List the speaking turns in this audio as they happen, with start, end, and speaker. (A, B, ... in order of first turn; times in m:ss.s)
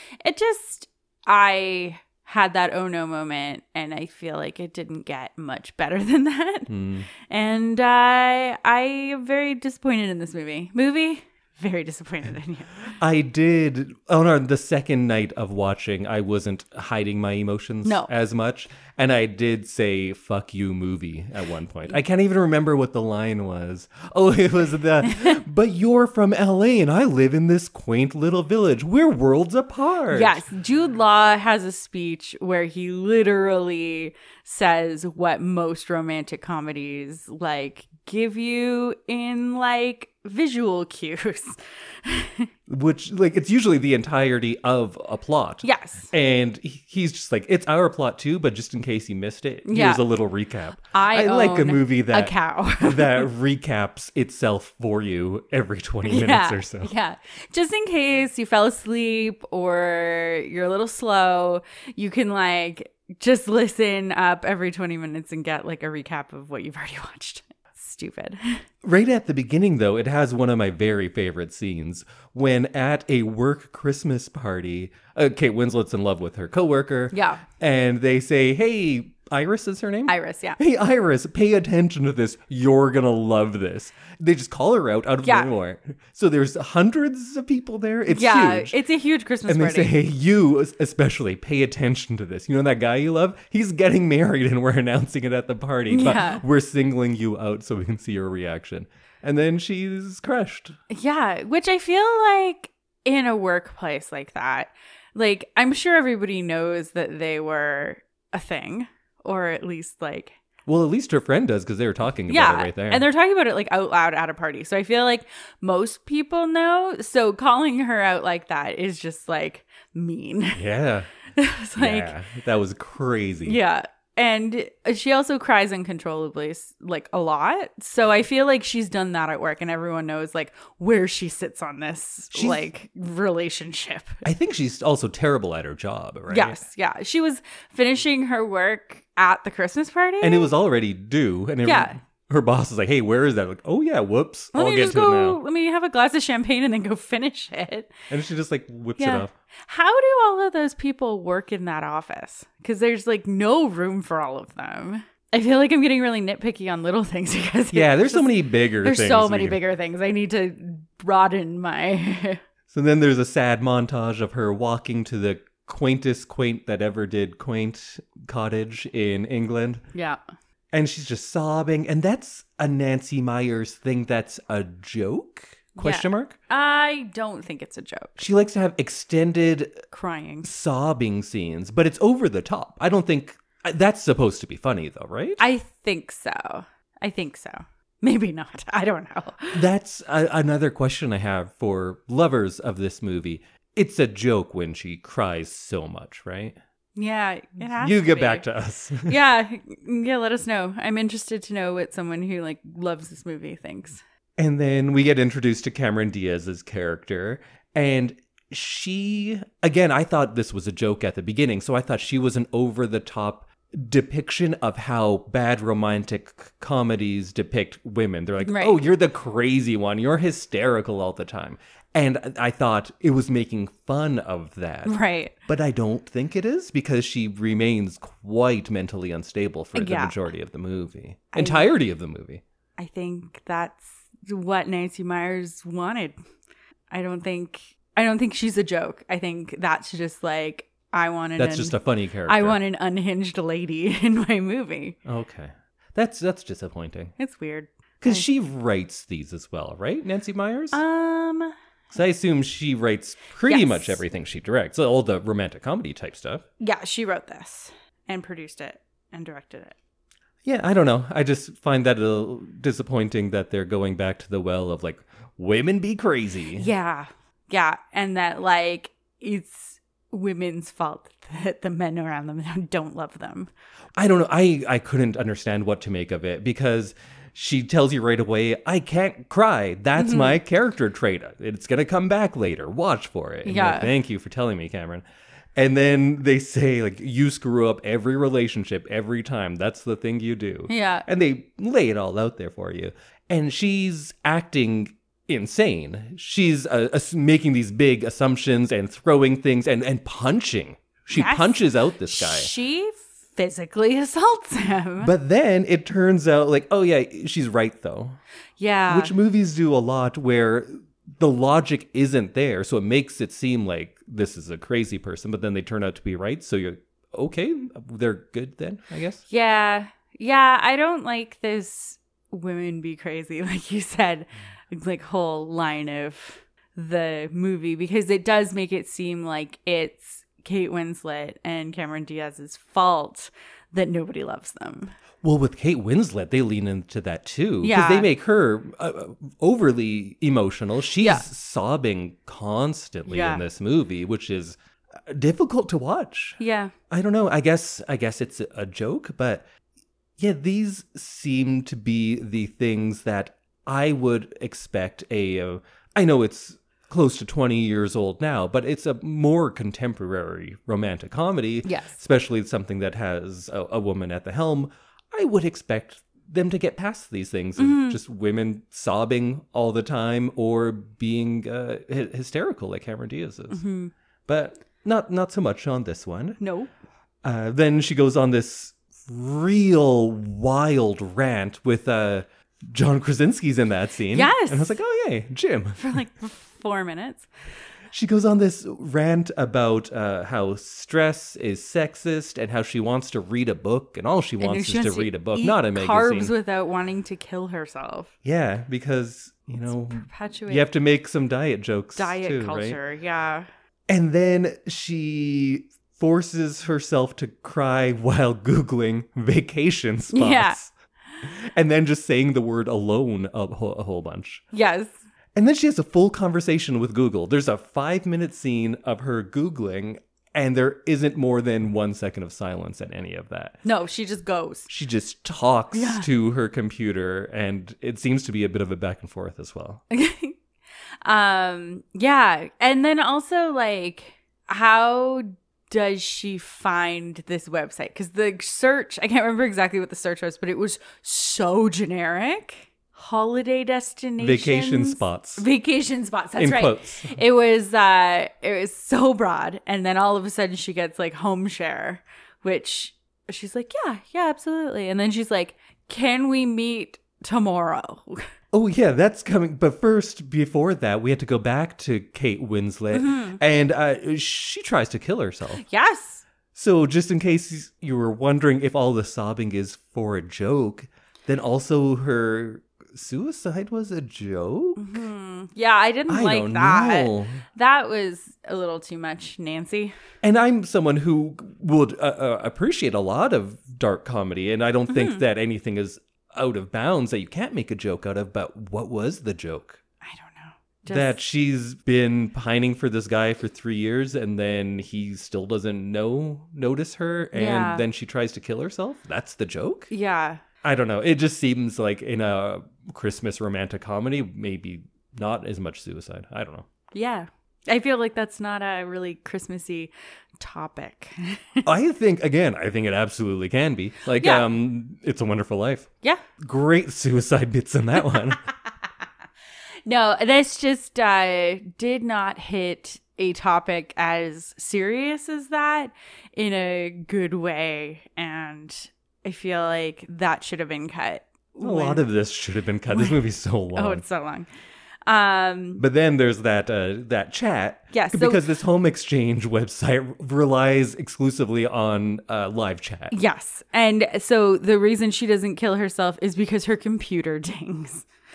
0:00.2-0:12.9 A
0:06.7-0:07.1 B
0:13.0-0:30.4 B
0:17.8-0:18.1 A
0:25.0-0:25.4 A
0:30.1-0:42.5 A
0:42.7-0:56.9 B
0:45.6-0:46.1 A
0:49.6-0:50.0 A
0:50.9-0:53.3 A
0:56.0-1:08.6 A
1:08.8-1:28.7 B
1:17.1-1:17.4 A
1:20.1-1:20.6 A
1:25.2-1:25.5 A
1:28.1-1:29.9 A
1:29.5-1:40.8 B
1:35.9-1:36.4 A
1:40.9-1:50.4 A
1:50.6-1:53.0 B
1:52.3-2:00.6 A
2:00.5-2:01.1 B
2:01.3-2:02.1 A
2:01.8-2:03.6 B
2:03.4-2:14.2 A
2:12.3-2:12.6 B
2:14.2-2:16.6 B
2:16.3-2:20.5 A
2:20.2-2:25.4 B
2:21.6-2:22.0 A
2:24.5-2:28.1 A
2:28.1-2:29.3 B
2:29.0-2:42.4 A
2:37.7-2:39.6 B
2:42.7-2:49.8 B
2:49.9-2:50.2 A
2:50.7-2:56.4 B
2:55.8-2:58.2 A
2:58.2-2:59.8 B
2:59.9-3:00.5 A
3:00.4-3:05.4 B
3:05.4-3:09.6 A
3:09.5-3:16.6 B
3:17.0-3:18.4 A
3:17.6-3:19.2 B
3:19.0-3:24.0 A
3:24.4-3:52.4 B
3:38.4-3:38.8 A
3:44.8-3:45.3 A
3:49.7-3:50.2 A
3:51.3-3:51.7 A
3:52.8-3:56.2 A
3:56.9-4:05.0 A
4:01.4-4:02.6 B
4:05.0-4:07.1 B
4:07.2-4:08.2 A
4:08.0-4:10.8 B
4:10.7-4:11.5 A
4:11.9-4:16.4 B
4:13.4-4:14.0 A
4:16.6-4:19.8 A
4:20.4-4:26.7 B
4:26.5-4:33.5 A
4:34.0-4:45.0 B
4:40.0-4:40.4 A
4:43.4-4:43.9 A
4:45.6-5:02.5 B
4:50.7-4:51.0 A
5:01.1-5:05.1 A
5:05.0-5:08.2 B
5:08.6-5:09.1 A
5:08.9-5:19.2 B
5:19.3-5:34.9 A
5:35.2-5:49.4 B
5:37.6-5:38.1 A
5:41.0-5:41.2 A
5:43.1-5:43.4 A
5:46.4-5:46.7 A
5:50.2-6:13.6 B
6:01.6-6:02.0 A
6:07.6-6:08.0 A
6:13.5-6:13.9 A
6:14.3-6:16.4 B
6:16.4-6:16.7 A
6:17.2-6:25.9 B
6:24.1-6:24.8 A
6:25.8-6:27.3 A
6:27.9-6:36.3 B
6:34.4-6:38.1 A
6:38.2-6:42.8 B
6:39.7-6:40.7 A
6:42.0-6:43.5 A
6:43.9-6:50.7 B
6:50.1-6:50.6 A
6:51.2-6:54.4 B
6:54.5-6:55.0 A
6:55.3-7:03.6 B
7:03.6-7:04.7 A
7:04.7-7:09.8 B
7:05.7-7:06.1 A
7:09.9-7:10.4 A
7:11.0-7:38.3 A
7:24.2-7:25.4 B
7:26.4-7:27.2 B
7:38.5-7:45.6 B
7:42.9-7:43.4 A
7:45.5-7:46.2 A
7:46.5-7:55.0 B
7:54.8-7:59.9 A
7:56.1-7:57.4 B
8:00.2-8:09.8 B
8:04.9-8:05.2 A
8:10.0-8:11.2 A
8:10.9-8:19.9 B
8:17.3-8:17.8 A
8:19.9-8:20.4 A
8:20.6-8:26.7 B
8:26.9-8:31.7 A
8:31.6-8:35.9 B
8:34.2-8:34.4 A
8:36.4-8:38.4 B
8:39.8-8:52.0 A
8:51.6-8:54.0 B
8:52.9-8:53.2 A
8:53.7-8:54.5 A
8:55.1-8:55.8 A
8:55.8-9:03.1 B
8:57.9-8:58.4 A
9:03.1-9:08.1 A